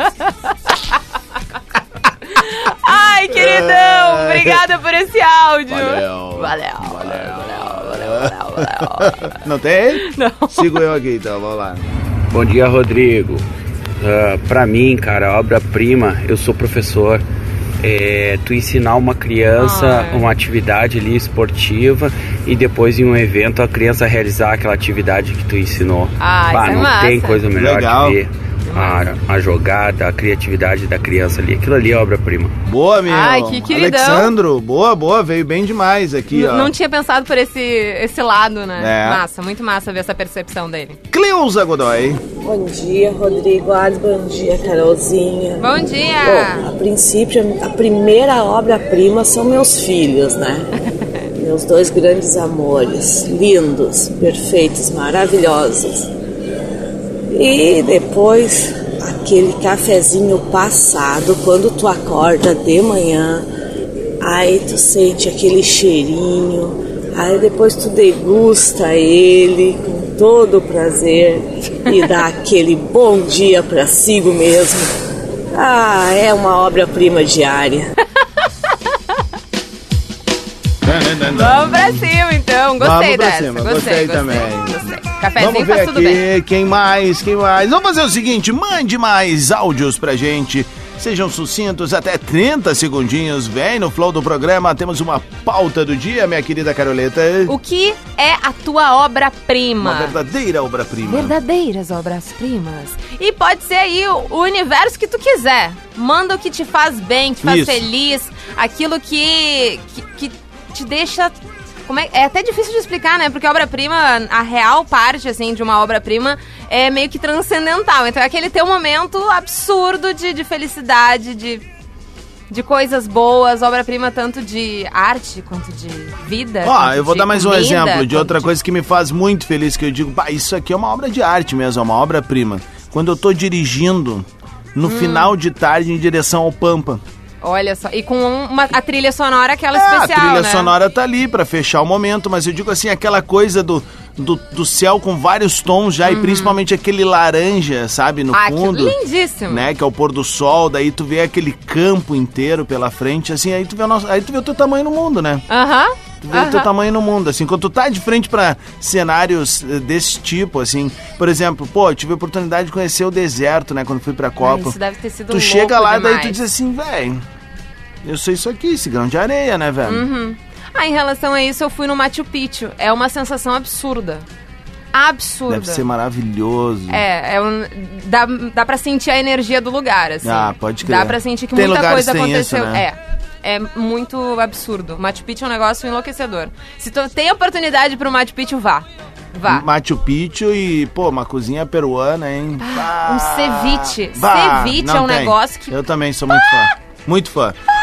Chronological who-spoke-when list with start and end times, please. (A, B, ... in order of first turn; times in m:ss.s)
0:02.3-0:09.2 A
0:03.3-0:04.6 B
0:05.7-0:11.8 B
0:10.0-0:10.6 A
0:12.3-0:13.4 C
0:14.0-0:17.2 C
0:17.8-0:32.5 C
0:19.6-0:20.2 A
0:26.2-0:27.4 A
0:27.6-0:28.2 B
0:28.7-0:29.1 A
0:32.6-0:36.7 B
0:33.1-0:34.3 A
0:36.3-0:41.0 A
0:38.8-0:39.2 B
0:41.1-0:42.2 B
0:42.4-0:50.7 D
0:45.6-0:46.7 A
0:51.4-0:56.1 D
0:57.3-1:03.4 D
1:04.2-1:14.9 D
1:15.5-1:17.9 D
1:20.8-1:22.1 B
1:21.3-1:26.2 A
1:22.8-1:24.8 B
1:25.4-1:37.5 B
1:37.5-1:40.1 A
1:39.8-1:41.3 B
1:41.0-2:01.6 A
1:47.4-1:47.8 B
2:02.5-2:08.5 A
2:06.6-2:17.0 B
2:14.8-2:15.3 A
2:17.4-2:20.7 A
2:19.7-2:29.0 B
2:26.0-2:26.6 A
2:28.3-2:29.6 A
2:29.5-2:35.4 B
2:35.5-2:36.7 A
2:36.2-2:44.8 B
2:44.4-2:46.4 A
2:45.3-2:47.2 B
2:48.0-2:50.0 B
2:49.8-2:54.2 A
2:54.9-2:55.8 A
2:55.5-2:57.0 B
2:56.9-3:09.6 A
3:00.2-3:02.8 B
3:09.5-3:17.6 B
3:12.6-3:15.7 A